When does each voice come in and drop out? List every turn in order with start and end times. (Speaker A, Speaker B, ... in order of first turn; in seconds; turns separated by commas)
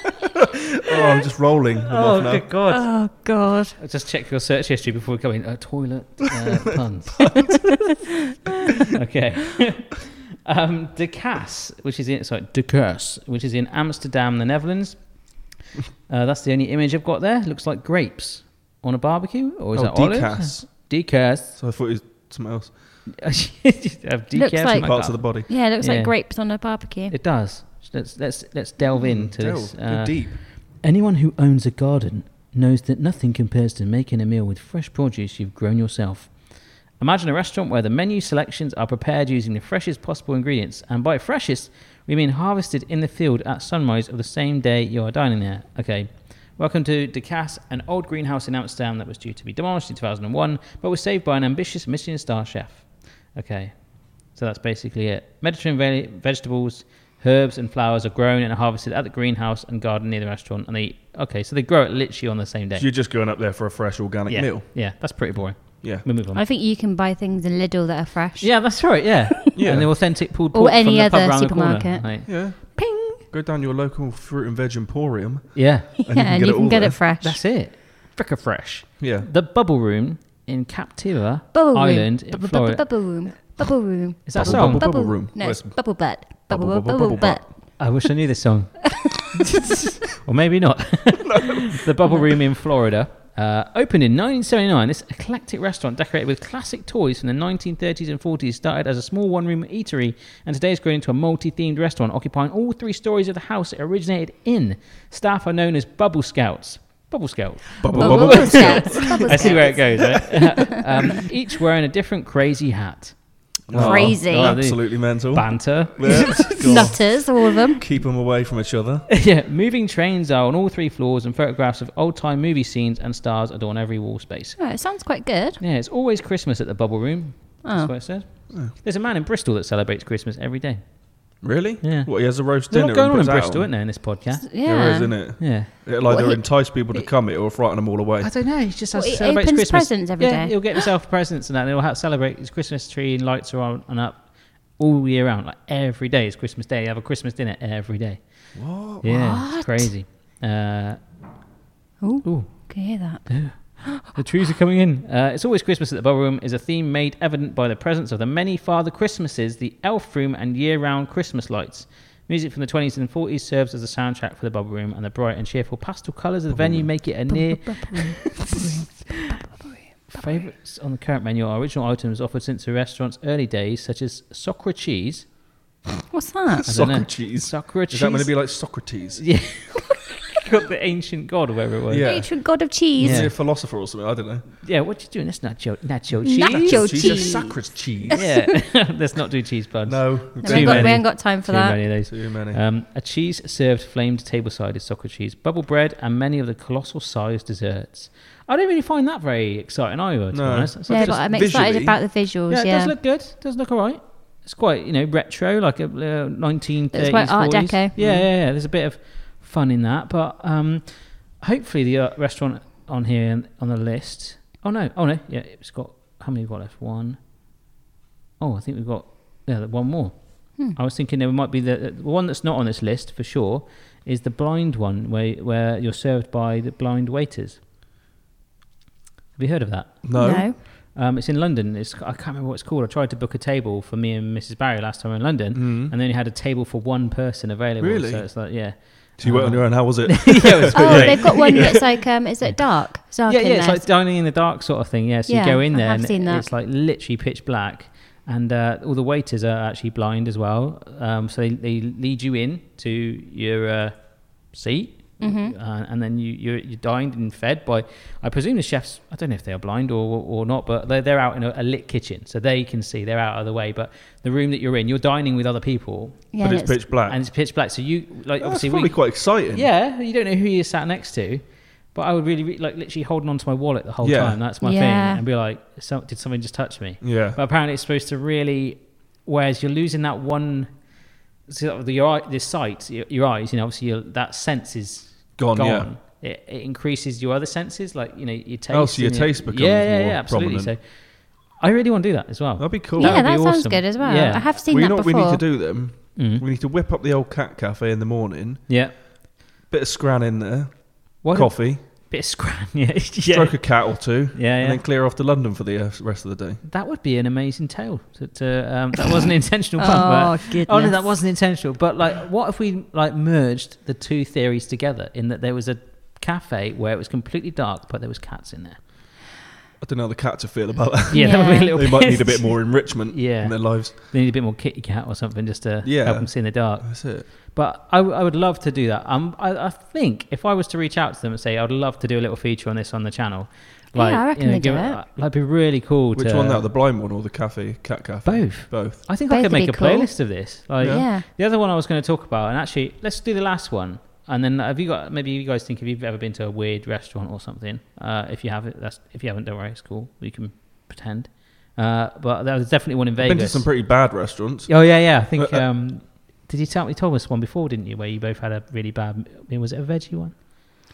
Speaker A: 0.8-2.5, Speaker B: 1.9-2.9, Speaker C: 2.7-3.8, Speaker B: 3.8-7.7, Speaker B: 8.8-15.3, Speaker B: 16.1-21.6, Speaker A: 19.7-20.7, Speaker A: 21.5-22.8, Speaker B: 23.1-26.1, Speaker C: 24.3-27.1, Speaker A: 24.7-25.5, Speaker B: 27.1-62.9, Speaker A: 29.0-30.4, Speaker A: 62.8-64.7, Speaker B: 64.3-66.4, Speaker C: 66.3-69.4, Speaker B: 68.4-73.2, Speaker A: 69.5-69.9, Speaker C: 70.5-72.1, Speaker A: 72.2-77.0, Speaker B: 75.5-75.9, Speaker C: 76.0-77.4, Speaker B: 77.2-83.6, Speaker A: 79.0-79.3, Speaker C: 81.5-87.8, Speaker B: 84.2-85.0, Speaker A: 84.3-87.4, Speaker B: 87.8-117.0, Speaker A: 91.2-91.7, Speaker A: 107.8-110.5, Speaker C: 107.9-110.7, Speaker A: 113.7-119.1, Speaker C: 113.7-114.6, Speaker C: 116.2-117.8, Speaker B: 119.1-124.6, Speaker C: 124.6-125.6, Speaker B: 125.6-130.8, Speaker C: 127.6-127.9, Speaker A: 131.4-133.7, Speaker B: 131.8-134.4, Speaker C: 134.4-135.3, Speaker A: 134.6-138.3, Speaker B: 135.4-135.7, Speaker C: 136.1-136.4, Speaker B: 138.2-148.5, Speaker C: 138.9-140.8, Speaker A: 148.5-149.0, Speaker B: 149.0-151.1, Speaker C: 149.0-149.9, Speaker C: 152.0-154.1, Speaker B: 152.2-169.2, Speaker A: 166.5-166.9, Speaker C: 167.3-170.4, Speaker B: 170.1-175.3, Speaker C: 176.1-176.7, Speaker A: 176.6-179.2, Speaker B: 176.7-178.3, Speaker B: 179.2-182.2, Speaker A: 181.9-182.3, Speaker C: 182.0-183.3, Speaker A: 182.9-184.4, Speaker B: 183.0-183.3, Speaker B: 184.6-187.3, Speaker C: 186.2-188.4, Speaker A: 186.4-188.2, Speaker B: 188.1-201.2, Speaker A: 189.8-191.1, Speaker C: 190.4-191.8, Speaker A: 192.1-192.6, Speaker A: 200.3-202.0, Speaker C: 200.9-202.9, Speaker B: 202.5-217.2, Speaker C: 206.9-207.9, Speaker A: 208.0-208.3, Speaker B: 218.4-227.6, Speaker B: 229.4-230.1, Speaker A: 230.0-230.5, Speaker C: 230.1-230.6, Speaker B: 230.7-241.9, Speaker A: 235.5-235.9, Speaker A: 237.8-238.6, Speaker A: 239.2-241.8, Speaker C: 240.7-243.9, Speaker B: 243.2-266.3, Speaker C: 245.3-246.5, Speaker C: 255.2-255.6, Speaker C: 266.3-266.8, Speaker A: 266.4-267.2, Speaker B: 267.1-280.9, Speaker A: 268.4-269.7, Speaker A: 274.0-274.4, Speaker C: 274.6-275.2, Speaker A: 277.0-277.4, Speaker B: 281.5-294.5, Speaker A: 285.4-285.9, Speaker A: 288.7-290.7, Speaker A: 292.6-293.2, Speaker C: 293.0-295.4, Speaker A: 294.6-298.7, Speaker B: 296.1-296.4, Speaker B: 298.7-299.0, Speaker A: 299.7-301.8, Speaker B: 301.2-304.8, Speaker A: 303.3-306.6, Speaker B: 306.6-318.8, Speaker C: 309.8-311.2, Speaker A: 319.8-323.9, Speaker B: 321.1-336.6, Speaker C: 321.1-321.9, Speaker A: 325.8-327.3, Speaker C: 333.9-335.0, Speaker A: 336.1-339.0, Speaker B: 338.2-353.7, Speaker C: 339.3-341.2, Speaker A: 340.8-341.0, Speaker A: 353.2-355.6, Speaker B: 354.7-360.4